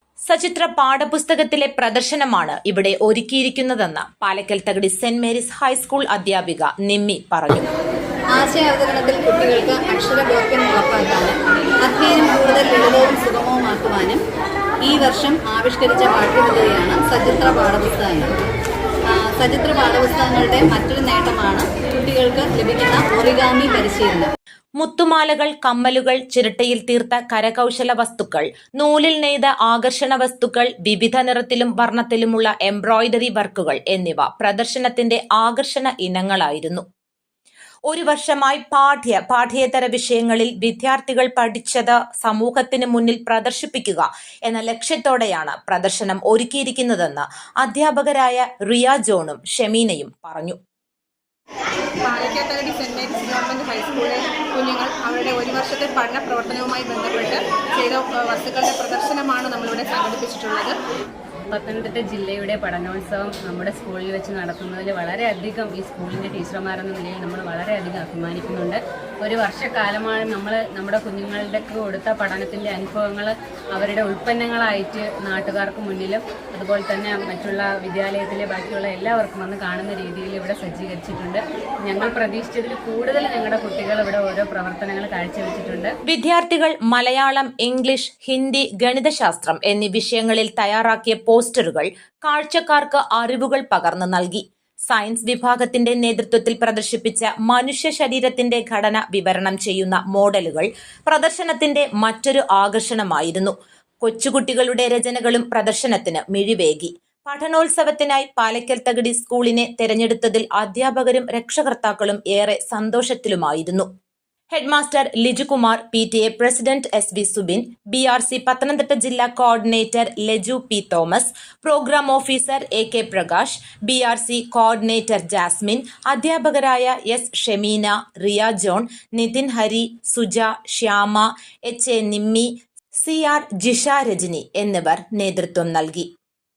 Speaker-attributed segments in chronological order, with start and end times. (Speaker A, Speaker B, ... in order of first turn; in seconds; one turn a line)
Speaker A: 0.2-7.7
Speaker B: 8.3-14.2
Speaker B: 14.8-18.4
Speaker B: 19.1-24.3
Speaker A: 24.8-36.8
Speaker A: 37.9-50.6
Speaker C: 52.0-60.7
Speaker D: 61.5-85.9
Speaker A: 86.0-113.9
Speaker A: 114.5-136.1